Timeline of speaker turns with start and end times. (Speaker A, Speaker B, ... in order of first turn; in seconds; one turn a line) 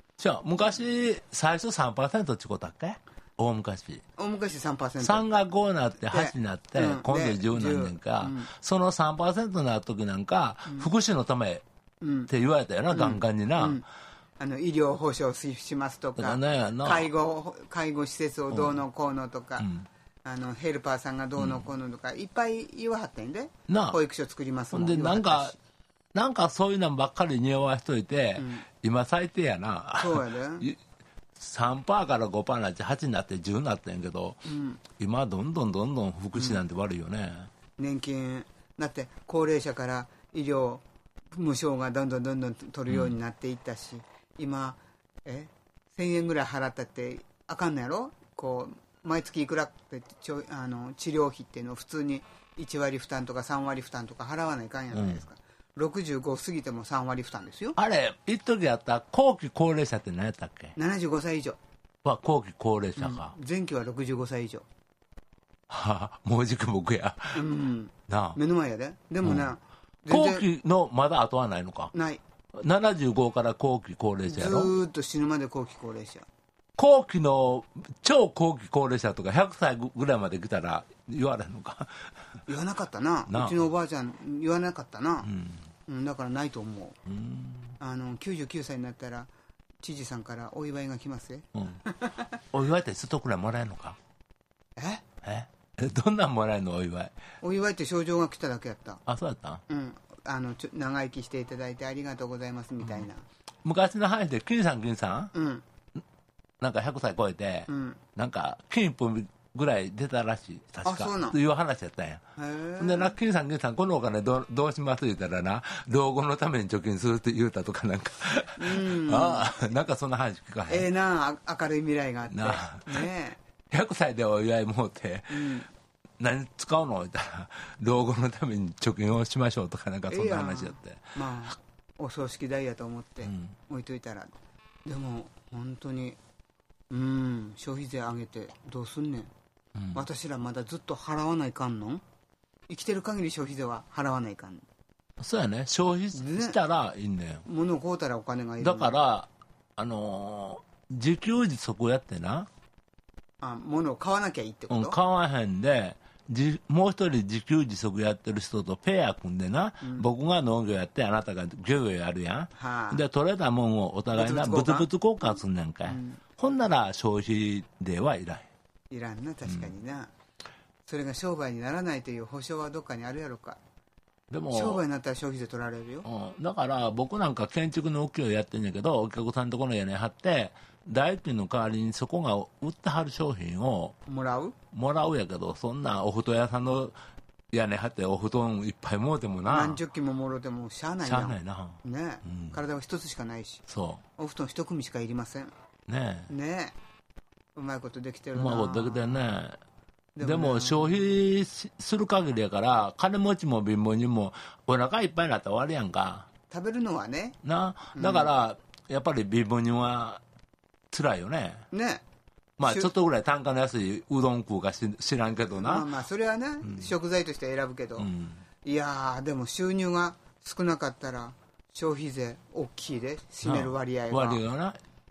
Speaker A: 0.2-4.0
Speaker B: 4.2-5.2
Speaker A: 5.0-11.6
Speaker B: 6.1-8.5
Speaker B: 12.0-12.3
Speaker A: 12.3-13.8
Speaker B: 12.9-13.8
Speaker B: 14.4-19.7
Speaker A: 16.2-17.1
Speaker A: 18.5-18.8
Speaker A: 19.6-19.9
Speaker B: 20.2-25.6
Speaker A: 21.4-21.7
Speaker A: 23.7-24.0
Speaker A: 24.7-25.5
Speaker A: 26.1-30.8
Speaker B: 28.4-28.6
Speaker B: 30.0-30.7
Speaker A: 31.4-34.4
Speaker B: 34.5-34.8
Speaker A: 35.0-37.5
Speaker B: 36.3-36.6
Speaker B: 37.8-57.8
Speaker A: 42.9-43.1
Speaker A: 54.9-55.2
Speaker A: 57.8-60.7
Speaker B: 60.8-61.6
Speaker A: 62.0-63.3
Speaker B: 63.0-64.7
Speaker A: 65.7-67.4
Speaker B: 67.3-70.5
Speaker A: 68.1-68.4
Speaker A: 69.2-69.5
Speaker A: 70.1-71.9
Speaker B: 71.9-72.2
Speaker A: 72.5-74.7
Speaker B: 74.3-76.2
Speaker A: 76.8-82.0
Speaker B: 82.5-85.3
Speaker A: 83.3-83.6
Speaker A: 85.2-85.6
Speaker B: 85.8-87.0
Speaker A: 87.0-87.8
Speaker B: 87.8-89.3
Speaker B: 89.8-92.3
Speaker A: 92.5-94.0
Speaker B: 94.8-95.0
Speaker A: 95.2-97.1
Speaker B: 97.4-99.0
Speaker A: 99.0-99.6
Speaker B: 99.7-103.2
Speaker A: 103.6-105.3
Speaker B: 105.3-105.6
Speaker A: 106.6-112.2
Speaker B: 107.7-108.0
Speaker B: 110.8-111.4
Speaker B: 112.4-113.1
Speaker A: 112.8-120.9
Speaker B: 118.6-119.6
Speaker B: 120.7-123.4
Speaker A: 122.3-123.1
Speaker A: 123.7-125.5
Speaker B: 125.3-125.7
Speaker A: 126.2-131.2
Speaker B: 130.1-134.3
Speaker A: 133.2-133.5
Speaker B: 134.8-136.2
Speaker B: 136.9-139.3
Speaker A: 139.8-140.0
Speaker B: 139.9-142.0
Speaker B: 142.7-144.6
Speaker A: 145.2-147.4
Speaker B: 146.1-146.6
Speaker B: 147.4-148.9
Speaker A: 148.6-152.5
Speaker B: 153.4-155.0
Speaker A: 154.7-168.4
Speaker B: 159.8-160.1
Speaker B: 162.5-163.0
Speaker B: 164.1-166.2
Speaker B: 168.9-170.1
Speaker B: 170.8-173.6
Speaker A: 174.3-174.8
Speaker B: 174.5-176.1
Speaker A: 176.0-183.9
Speaker B: 184.1-184.5
Speaker A: 184.7-186.9
Speaker A: 187.5-189.8
Speaker B: 189.5-193.6
Speaker A: 191.0-192.6
Speaker A: 193.7-194.0
Speaker B: 194.2-195.5
Speaker A: 195.9-196.3
Speaker B: 196.3-196.7
Speaker B: 197.5-199.3
Speaker A: 198.3-199.6
Speaker B: 200.2-201.0
Speaker A: 200.2-206.3
Speaker B: 206.5-207.4
Speaker A: 207.4-210.2
Speaker B: 207.9-208.3
Speaker A: 210.9-211.7
Speaker B: 211.7-212.0
Speaker A: 212.6-215.9
Speaker B: 212.6-212.9
Speaker B: 215.5-218.1
Speaker A: 216.6-216.9
Speaker A: 218.0-218.4
Speaker B: 218.6-224.4
Speaker A: 223.4-224.8